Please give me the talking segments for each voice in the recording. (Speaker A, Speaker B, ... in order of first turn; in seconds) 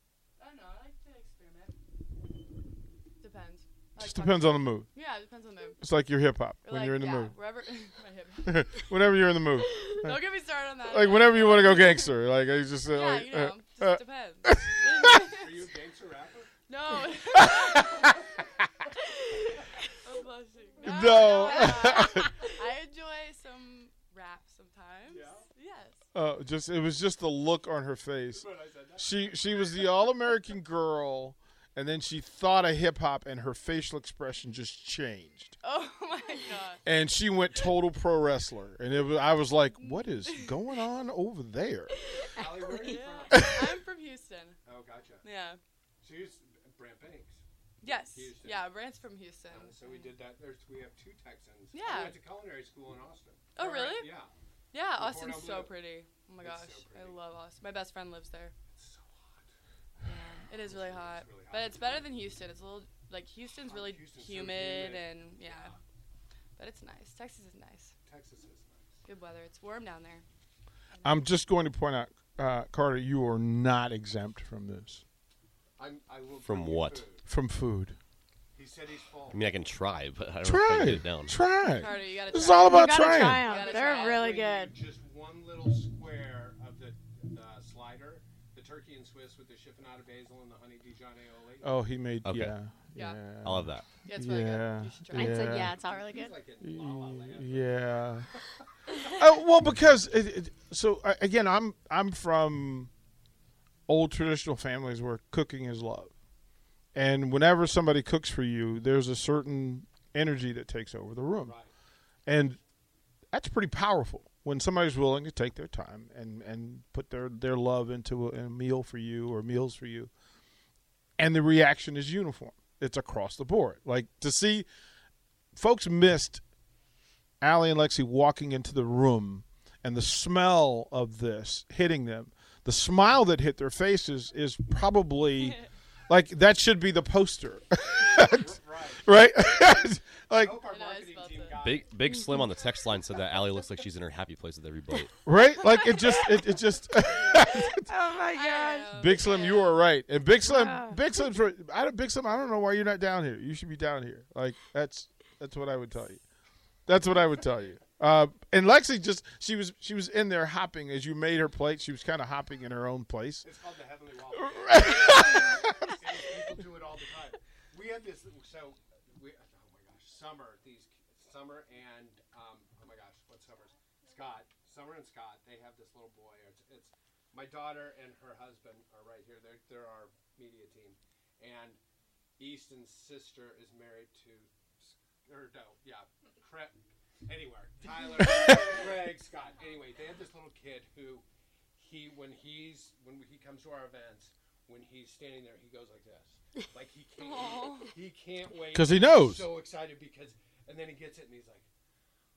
Speaker A: 0.4-1.7, 3.2-5.8, 6.7-8.8, 9.9-12.1, 12.9-15.6, 16.7-18.1, 19.9-26.0, 35.6-36.8, 39.8-40.5, 42.6-44.6, 45.2-45.6, 47.8-50.1, 51.7-52.2, 53.5-54.1, 54.7-58.5, 60.0-65.7, 66.6-67.9, 69.0-70.2, 81.7-84.2, 92.9-93.2, 94.0-95.6, 140.7-141.6, 148.3-149.8, 197.2-197.9
Speaker B: 4.0-4.9, 5.8-7.3, 8.4-10.2, 10.8-15.2, 17.4-18.1, 20.8-22.3, 26.1-35.6, 36.8-41.9, 43.3-43.6, 71.0-75.0, 77.2-78.0, 80.4-83.5, 91.6-95.8, 96.6-98.3, 99.0-102.9, 103.9-106.1, 106.9-111.5, 112.2-112.6, 113.3-120.1, 121.2-124.7, 125.5-126.4, 127.4-140.6, 145.2-147.9, 148.9-156.2, 156.9-163.5, 164.3-166.0, 198.7-199.5
Speaker C: 15.3-16.5, 25.1-25.4, 28.3-29.8, 42.3-43.6, 44.6-45.2, 46.0-48.7, 49.5-54.3, 55.0-55.7, 56.4-57.2, 58.7-59.5, 60.6-62.1, 63.6-65.8, 68.0-69.0, 75.8-77.2, 78.5-79.4, 83.5-91.7, 95.5-99.1, 111.4-111.7, 138.0-139.1, 140.3-141.9, 163.4-181.8, 182.4-191.2, 191.8-201.7
Speaker D: 76.4-77.0, 79.3-81.4, 92.2-92.5, 93.4-93.9, 141.6-145.1
Speaker E: 82.6-84.7, 95.1-96.3, 147.8-148.9, 150.4-151.0